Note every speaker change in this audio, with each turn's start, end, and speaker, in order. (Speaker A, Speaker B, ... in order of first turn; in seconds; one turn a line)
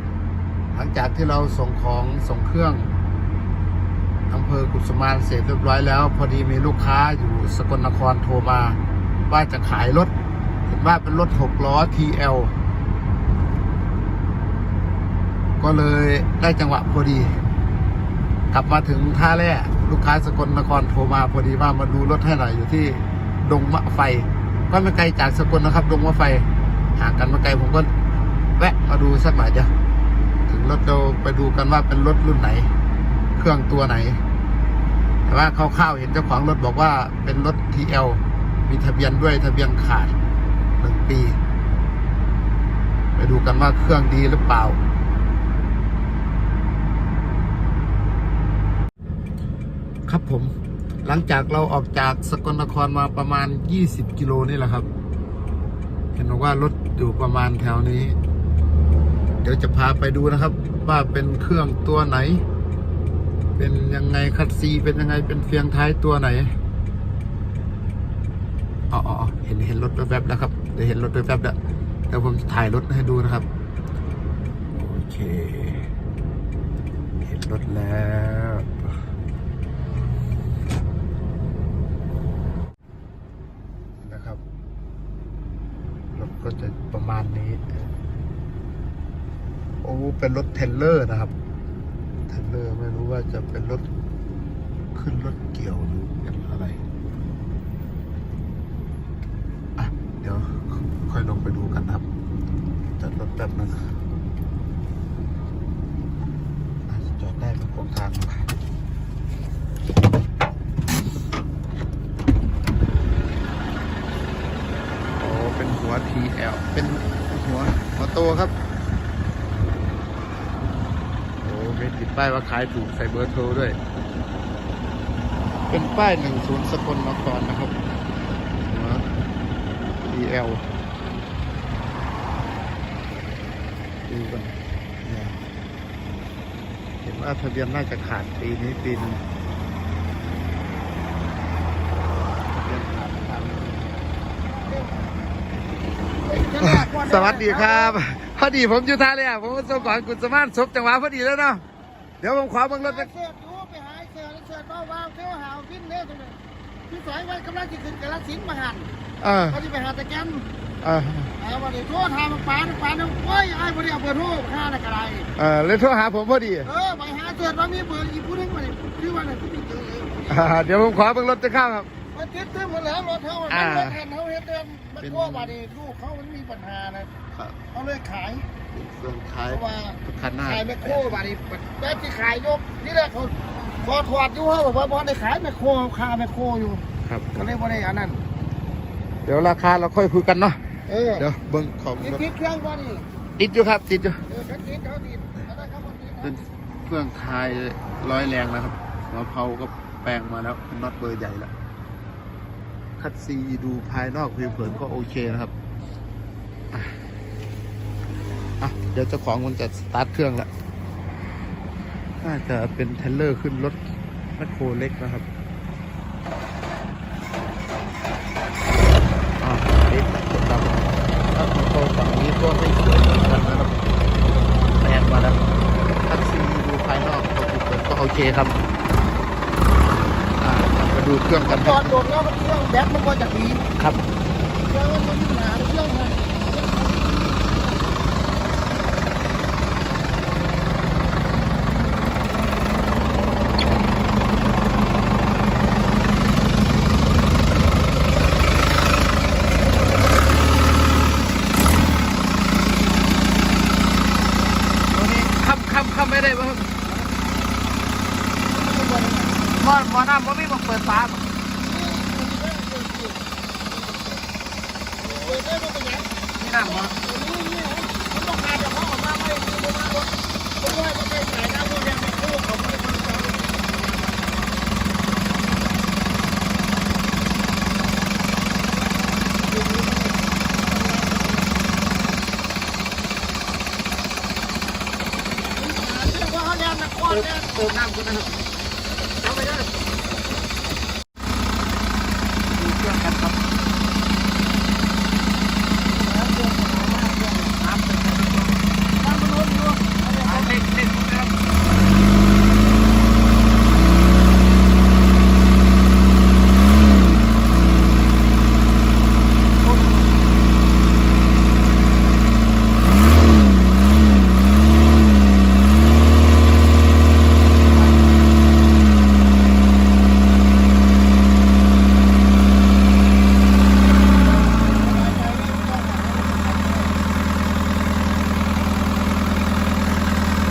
Speaker A: 0.7-2.9
Speaker A: 4.3-10.1
Speaker A: 10.7-12.5
Speaker A: 15.6-17.3
Speaker A: 18.5-26.4
Speaker A: 27.0-27.9
Speaker A: 28.6-29.7
Speaker A: 30.5-32.7
Speaker A: 33.3-34.2
Speaker A: 35.2-40.1
Speaker A: 40.8-41.4
Speaker A: 43.1-44.8
Speaker A: 50.1-50.5
Speaker A: 51.0-54.9
Speaker A: 56.1-58.2
Speaker A: 59.4-62.4
Speaker A: 63.6-66.5
Speaker A: 68.9-71.5
Speaker A: 72.1-73.5
Speaker A: 74.8-75.9
Speaker A: 77.2-78.9
Speaker A: 84.0-84.4
Speaker A: 86.1-87.9
Speaker A: 89.8-91.3
Speaker A: 92.3-93.9
Speaker A: 94.9-96.8
Speaker A: 99.8-102.0
Speaker A: 103.0-103.9
Speaker A: 106.9-108.5
Speaker A: 115.2-118.5
Speaker A: 121.4-123.8
Speaker A: 125.7-127.8
Speaker A: 128.6-129.1
Speaker A: 130.0-130.6
Speaker A: 134.1-135.4
Speaker A: 137.0-139.2
Speaker A: 142.5-143.9
Speaker B: 144.4-145.1
Speaker B: 146.2-147.9
Speaker A: 146.3-151.6
Speaker A: 152.2-153.1
Speaker B: 152.8-156.4
Speaker B: 156.9-158.9
Speaker A: 159.2-159.6
Speaker B: 159.5-160.4
Speaker A: 160.8-161.3
Speaker B: 161.4-165.3
Speaker A: 165.3-166.7
Speaker B: 166.6-170.6
Speaker A: 170.3-171.9
Speaker B: 172.1-177.1
Speaker A: 173.5-174.0
Speaker A: 175.0-175.5
Speaker A: 177.3-177.6
Speaker B: 177.7-178.5
Speaker A: 178.7-181.2
Speaker B: 179.5-186.8
Speaker A: 187.0-187.3
Speaker B: 187.3-188.2
Speaker A: 189.2-190.6
Speaker B: 190.9-191.2
Speaker A: 191.2-192.2
Speaker B: 192.0-193.1
Speaker A: 193.4-194.2
Speaker B: 194.3-196.3
Speaker A: 196.2-201.5
Speaker A: 203.0-205.5
Speaker B: 204.7-205.1
Speaker A: 206.7-207.0
Speaker A: 208.6-210.5
Speaker A: 212.2-213.8
Speaker A: 214.4-215.3
Speaker A: 219.4-223.7
Speaker A: 224.7-225.4
Speaker A: 226.1-228.6
Speaker A: 230.4-231.9
Speaker B: 231.4-233.6
Speaker A: 233.8-234.0
Speaker B: 234.6-237.5
Speaker A: 254.9-256.8
Speaker B: 258.4-259.6
Speaker A: 259.6-261.3
Speaker B: 261.6-263.3
Speaker B: 265.0-273.9
Speaker A: 266.4-266.9
Speaker B: 279.0-281.5
Speaker B: 285.5-287.6
Speaker A: 287.1-288.4
Speaker A: 292.5-293.4
Speaker B: 295.9-297.4
Speaker A: 297.3-298.6
Speaker B: 299.0-300.6
Speaker A: 300.2-301.3
Speaker B: 324.6-326.9